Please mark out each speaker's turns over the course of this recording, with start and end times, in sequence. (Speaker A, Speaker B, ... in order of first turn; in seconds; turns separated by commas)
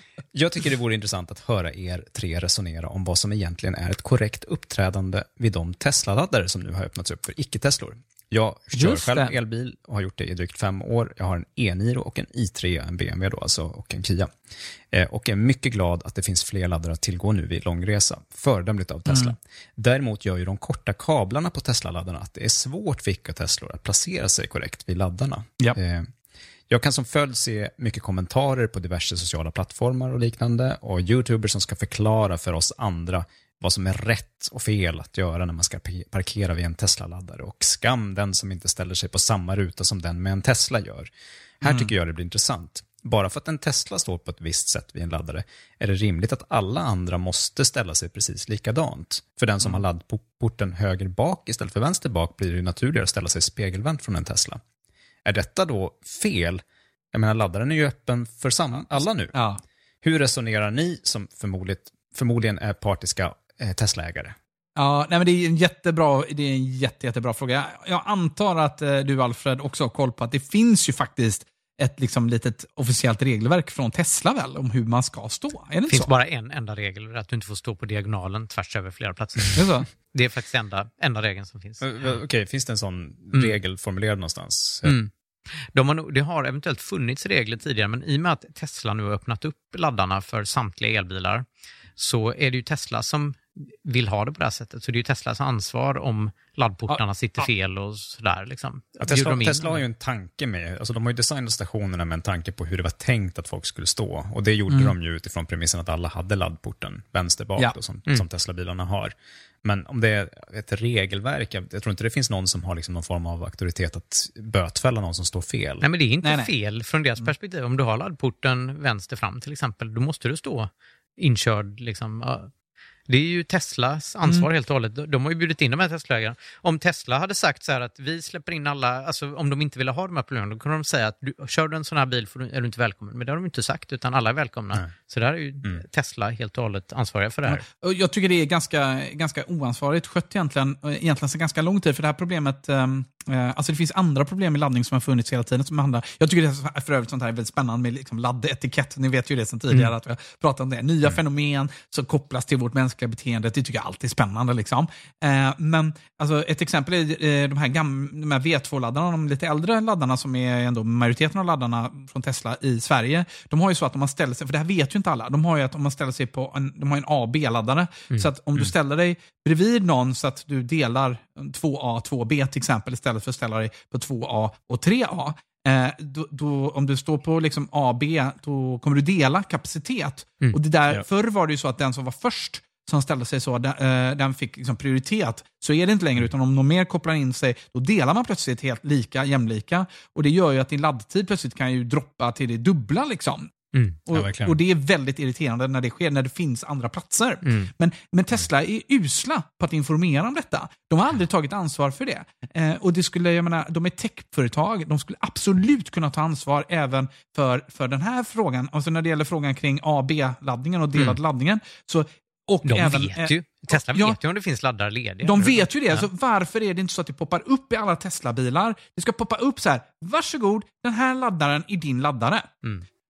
Speaker A: 0.3-14.3, Speaker B: 8.7-9.3, Speaker A: 14.9-26.1, Speaker B: 19.1-19.3, Speaker A: 26.7-41.1, Speaker A: 41.6-54.6, Speaker B: 41.6-41.9, Speaker A: 55.2-59.3, Speaker B: 59.3-59.6, Speaker A: 60.0-64.3, Speaker B: 64.8-76.1, Speaker C: 75.9-82.2, Speaker B: 79.5-79.8, Speaker A: 81.8-85.0, Speaker C: 84.8-85.1, Speaker C: 85.6-91.5, Speaker C: 92.0-99.8, Speaker B: 96.9-97.5, Speaker A: 99.0-115.8, Speaker C: 115.8-122.5, Speaker B: 116.2-116.5, Speaker C: 123.1-137.6, Speaker B: 137.5-193.5, Speaker B: 194.1-214.2, Speaker A: 194.1-194.6, Speaker C: 197.4-197.7, Speaker C: 212.6-216.1, Speaker B: 215.2-222.5